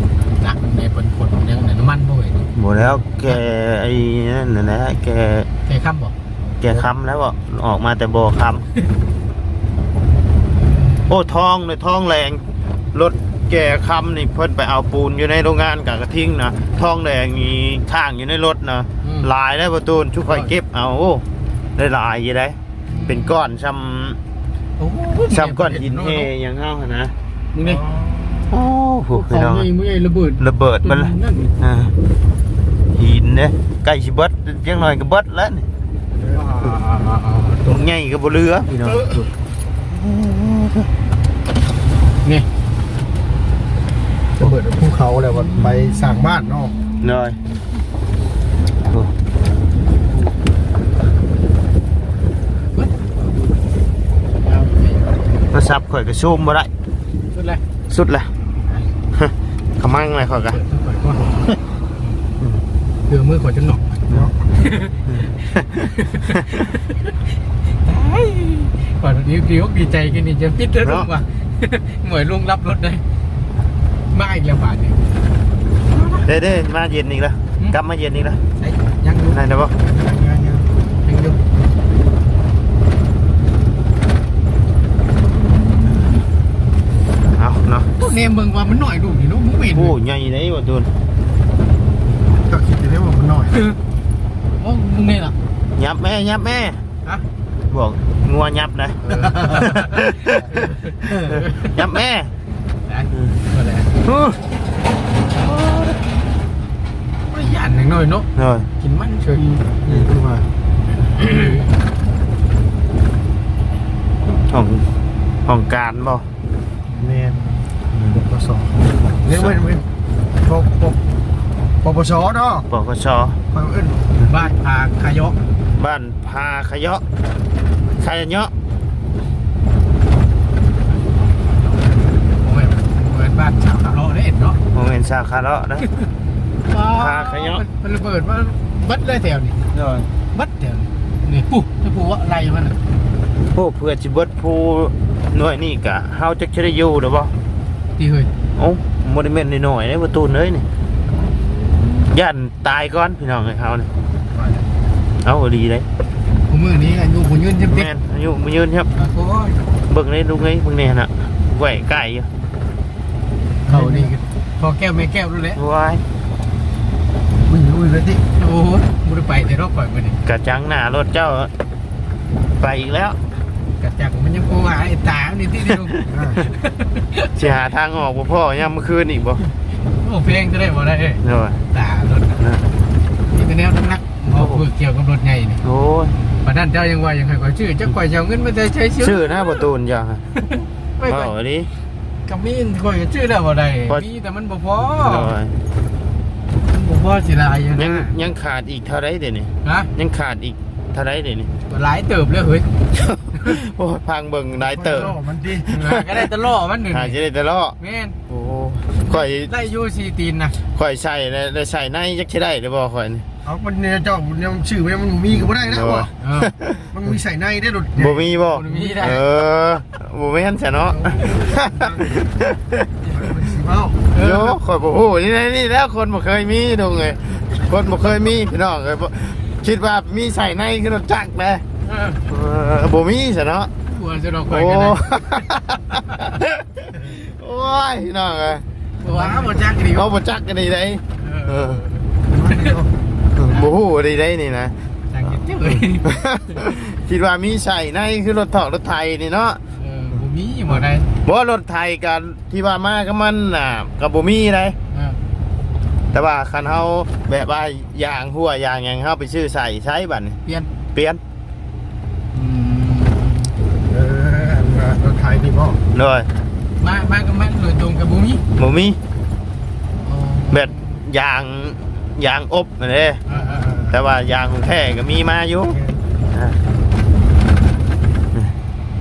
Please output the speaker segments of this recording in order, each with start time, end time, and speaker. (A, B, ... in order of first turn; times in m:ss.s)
0:00.4-0:02.5 A
0:02.5-0:05.5 B
0:05.6-0:06.1 A
0:06.6-0:08.6 B
0:11.1-0:21.2 B
0:19.0-0:19.3 A
0:21.8-0:24.2 B
0:22.9-0:23.4 A
0:24.8-0:26.3 A
0:25.2-0:27.1 B
0:27.5-0:27.8 A
0:27.6-0:28.6 C
0:28.5-0:29.7 B
0:29.1-0:31.5 A
0:30.4-0:31.9 B
0:33.0-0:35.6 B
0:36.3-0:37.8 A
0:37.6-0:39.2 B
0:38.8-0:39.2 A
0:39.9-0:40.9 B
0:44.4-0:46.8 C
0:47.0-0:47.4 B
0:48.9-0:49.1 B
0:52.7-0:53.1 A
0:54.4-0:55.1 A
0:55.5-0:56.7 B
0:57.3-0:57.6 A
0:57.9-0:58.3 B
0:59.1-1:00.6 B
1:00.5-1:01.4 A
1:03.1-1:04.0 A
1:04.6-1:05.0 A
1:05.1-1:06.7 B
1:05.9-1:07.1 A
1:07.8-1:13.0 A
1:10.8-1:11.1 B
1:14.1-1:15.0 A
1:15.9-1:16.3 A
1:16.2-1:18.4 B
1:18.6-1:19.4 A
1:19.3-1:19.8 B
1:19.8-1:20.6 C
1:21.0-1:21.4 A
1:27.2-1:27.9 B
1:28.0-1:30.0 A
1:29.7-1:30.9 B
1:32.5-1:33.6 C
1:34.6-1:35.4 A
1:35.8-1:36.8 B
1:37.7-1:42.3 B
1:39.0-1:41.8 A
1:39.1-1:39.9 C
1:42.9-1:44.0 A
1:44.0-1:44.4 B
1:45.4-1:46.0 B
1:47.3-1:48.3 A
1:48.4-1:48.7 B
1:48.8-1:49.4 A
1:49.4-1:50.5 C
1:51.2-1:51.6 A
1:54.5-1:54.9 B
1:55.5-1:56.3 B
1:56.9-1:57.4 A
1:57.0-1:57.4 C
1:57.9-1:58.2 B
1:58.1-1:59.9 C
2:00.4-2:01.0 C
2:01.8-2:02.6 C
2:02.7-2:03.4 B
2:03.5-2:04.3 C
2:04.2-2:05.4 A
2:05.8-2:07.0 B
2:08.0-2:08.5 B
2:12.4-2:14.6 A
2:14.7-2:15.9 B
2:16.7-2:19.6 A
2:16.8-2:17.6 B
2:19.7-2:20.1 B
2:20.3-2:22.8 A
2:23.5-2:27.3 B
2:28.0-2:28.3 A
2:28.6-2:30.6 B
2:32.0-2:33.9 B
2:34.3-2:34.6 C
2:35.2-2:35.9 B
2:36.5-2:37.9 A
2:37.6-2:38.9 B
2:38.9-2:39.6 A
2:39.9-2:42.3 B
2:43.7-2:44.2 C
2:43.7-2:45.6 A
2:45.6-2:46.0 B
2:47.4-2:48.2 C
2:48.4-2:50.2 A
2:50.2-2:51.5 B
2:52.6-2:53.2 B
2:53.8-2:57.6 A
2:56.0-2:56.4 C
2:57.4-2:59.4 B
3:00.0-3:02.4 A
3:01.2-3:01.6 B
3:02.4-3:02.6 B
3:03.3-3:05.6 A
3:04.3-3:04.6 B
3:05.6-3:06.2 B
3:06.4-3:09.7 A
3:09.0-3:10.2 B
3:10.3-3:11.3 A
3:11.0-3:11.7 B
3:12.2-3:15.3 A
3:14.9-3:15.5 B
3:16.7-3:18.2 A
3:17.8-3:21.5 B
3:19.6-3:19.9 A
3:21.7-3:23.6 A
3:22.9-3:25.1 B
3:24.6-3:25.7 C
3:25.6-3:27.2 A
3:25.7-3:26.2 B
3:26.9-3:27.8 B
3:27.8-3:28.2 A
3:28.3-3:29.5 B
3:29.0-3:30.6 A
3:30.7-3:33.2 B
3:33.4-3:36.1 C
3:35.7-3:36.9 B
3:36.2-3:36.5 A
3:36.9-3:38.8 C
3:38.0-3:42.9 B
3:38.4-3:39.2 A
3:41.0-3:42.5 C
3:43.0-3:44.0 C
3:44.1-3:44.6 A
3:44.2-3:51.6 B
3:51.8-3:52.2 A
3:52.3-3:53.7 B
3:53.8-3:55.5 A
3:54.5-3:58.6 B
3:59.0-4:00.2 A
3:59.0-3:59.7 C
3:59.8-4:01.8 B
4:01.2-4:02.8 A
4:02.3-4:02.9 C
4:03.4-4:04.8 B
4:03.4-4:03.7 A
4:05.1-4:06.6 A
4:05.7-4:09.6 B
4:09.7-4:11.1 A
4:11.2-4:14.8 B
4:14.9-4:15.2 A
4:16.1-4:20.4 B
4:21.0-4:21.2 B
4:22.3-4:23.5 A
4:23.9-4:25.8 C
4:25.9-4:26.3 B
4:26.8-4:28.4 A
4:28.6-4:29.0 B
4:30.0-4:30.9 A
4:30.5-4:33.2 B
4:33.3-4:33.8 A
4:33.3-4:34.0 C
4:33.9-4:35.8 B
4:35.7-4:36.0 C